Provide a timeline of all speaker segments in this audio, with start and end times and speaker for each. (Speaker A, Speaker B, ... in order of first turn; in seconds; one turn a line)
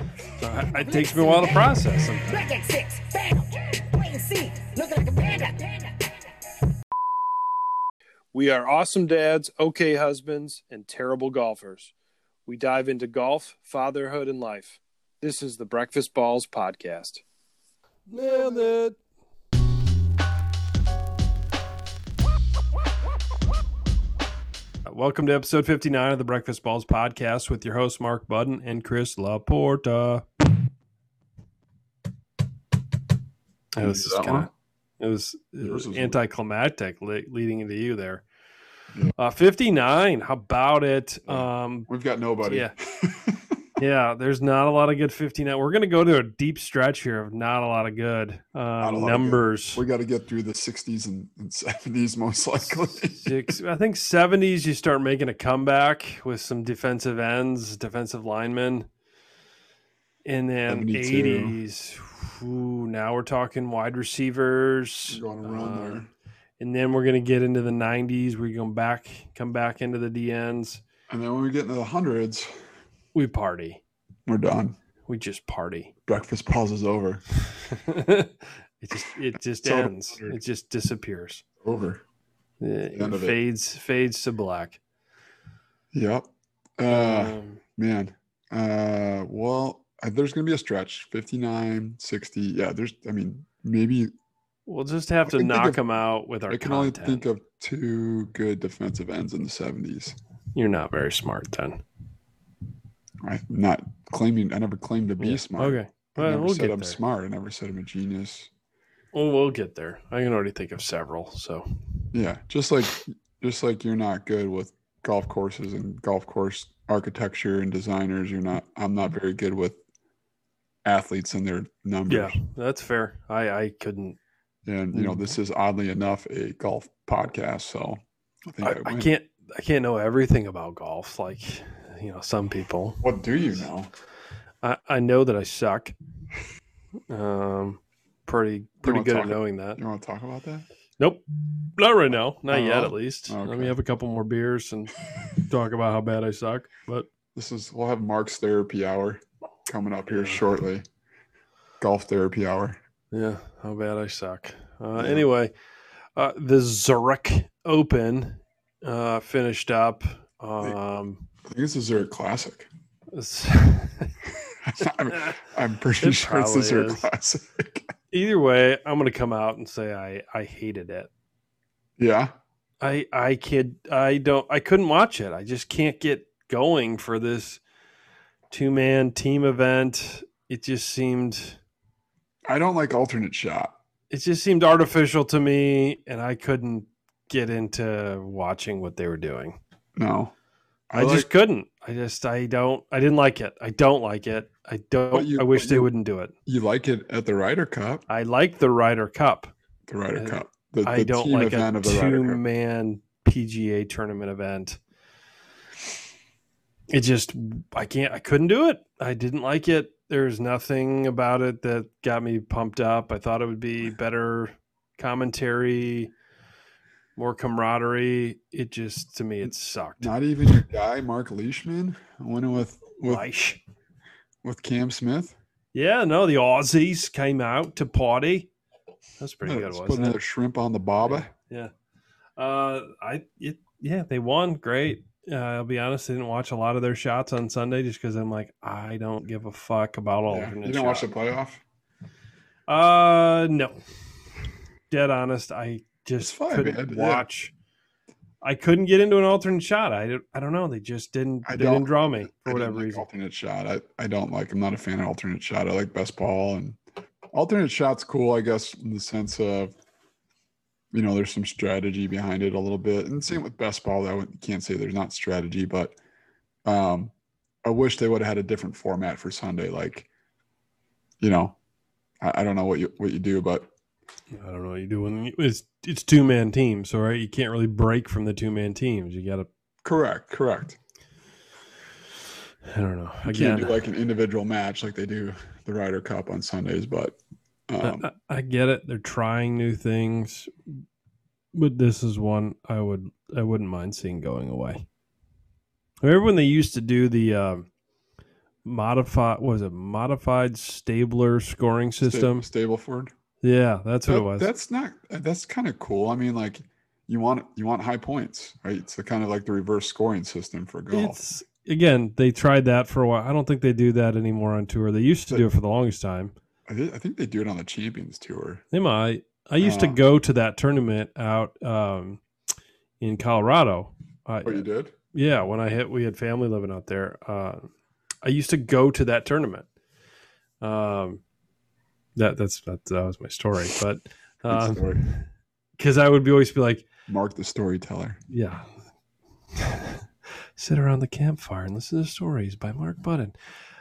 Speaker A: 0.4-2.5
Speaker B: 0.4-6.1
Speaker A: 8.3-11.9
Speaker A: 12.5-17.2
Speaker A: 18.1-19.0
Speaker A: 24.9-30.3
Speaker A: 33.8-38.2
Speaker C: 33.8-34.5
Speaker C: 35.6-36.2
Speaker A: 39.2-41.9
Speaker C: 41.3-43.6
Speaker A: 42.4-42.7
Speaker A: 43.8-49.8
Speaker C: 48.8-53.3
Speaker A: 53.1-58.9
Speaker A: 60.2-66.1
Speaker C: 60.7-61.6
Speaker C: 65.1-66.1
Speaker A: 66.6-70.8
Speaker C: 71.1-72.6
Speaker A: 73.1-73.8
Speaker C: 74.3-74.8
Speaker A: 75.1-75.9
Speaker C: 76.1-77.2
Speaker A: 77.5-81.4
Speaker C: 79.6-80.4
Speaker C: 81.6-82.0
Speaker A: 82.6-84.8
Speaker C: 82.9-83.4
Speaker C: 85.9-94.1
Speaker A: 86.9-87.6
Speaker A: 94.7-97.2
Speaker C: 95.3-95.8
Speaker C: 96.5-100.2
Speaker A: 100.5-101.8
Speaker C: 103.2-108.5
Speaker A: 105.2-107.0
Speaker A: 109.1-111.7
Speaker C: 112.1-119.8
Speaker C: 120.8-122.4
Speaker A: 122.1-124.2
Speaker C: 124.7-129.1
Speaker A: 124.9-125.3
Speaker A: 128.6-133.1
Speaker C: 133.0-133.9
Speaker A: 134.6-135.9
Speaker A: 137.1-139.8
Speaker C: 138.8-140.7
Speaker A: 141.8-147.1
Speaker C: 142.5-143.8
Speaker C: 147.3-150.8
Speaker A: 150.1-150.5
Speaker C: 151.8-152.8
Speaker A: 153.1-155.5
Speaker C: 155.0-155.3
Speaker A: 156.2-161.3
Speaker C: 161.4-162.7
Speaker A: 163.1-164.2
Speaker C: 164.6-167.9
Speaker A: 165.1-165.4
Speaker A: 166.0-167.1
Speaker A: 168.1-171.1
Speaker C: 172.0-172.3
Speaker A: 172.8-177.6
Speaker A: 178.5-181.6
Speaker C: 182.5-183.7
Speaker A: 184.1-189.6
Speaker C: 190.0-190.3
Speaker C: 190.9-191.3
Speaker A: 190.9-196.3
Speaker C: 195.1-195.9
Speaker C: 196.5-198.0
Speaker A: 198.1-199.5
Speaker C: 199.9-202.4
Speaker A: 200.2-204.8
Speaker A: 206.9-216.1
Speaker A: 217.2-220.1
Speaker C: 219.4-223.2
Speaker A: 223.0-223.6
Speaker C: 224.4-225.4
Speaker A: 225.7-228.5
Speaker A: 229.2-230.2
Speaker C: 229.4-231.3
Speaker A: 231.0-231.7
Speaker A: 232.4-241.1
Speaker C: 240.3-241.6
Speaker A: 242.7-243.8
Speaker A: 244.9-247.5
Speaker C: 246.2-247.2
Speaker A: 248.4-253.1
Speaker C: 251.4-256.8
Speaker C: 257.3-259.7
Speaker C: 260.9-266.0
Speaker C: 266.6-267.1
Speaker C: 267.6-270.1
Speaker C: 271.2-271.6
Speaker C: 272.2-273.7
Speaker A: 274.3-279.5
Speaker C: 279.8-280.8
Speaker A: 282.7-283.8
Speaker C: 283.2-287.2
Speaker C: 287.7-288.1
Speaker A: 287.8-290.7
Speaker A: 291.5-294.9
Speaker A: 296.0-297.7
Speaker A: 298.6-302.5
Speaker C: 302.0-303.1
Speaker A: 303.4-304.5
Speaker C: 304.1-311.2
Speaker A: 310.9-316.3
Speaker C: 316.7-318.6
Speaker A: 318.7-322.2
Speaker C: 319.6-320.0
Speaker A: 323.0-327.6
Speaker C: 324.4-324.9
Speaker A: 328.2-329.7
Speaker A: 330.6-331.2
Speaker A: 332.2-336.9
Speaker C: 334.5-335.0
Speaker C: 337.1-338.2
Speaker A: 338.3-338.7
Speaker A: 339.5-340.1
Speaker A: 340.6-343.4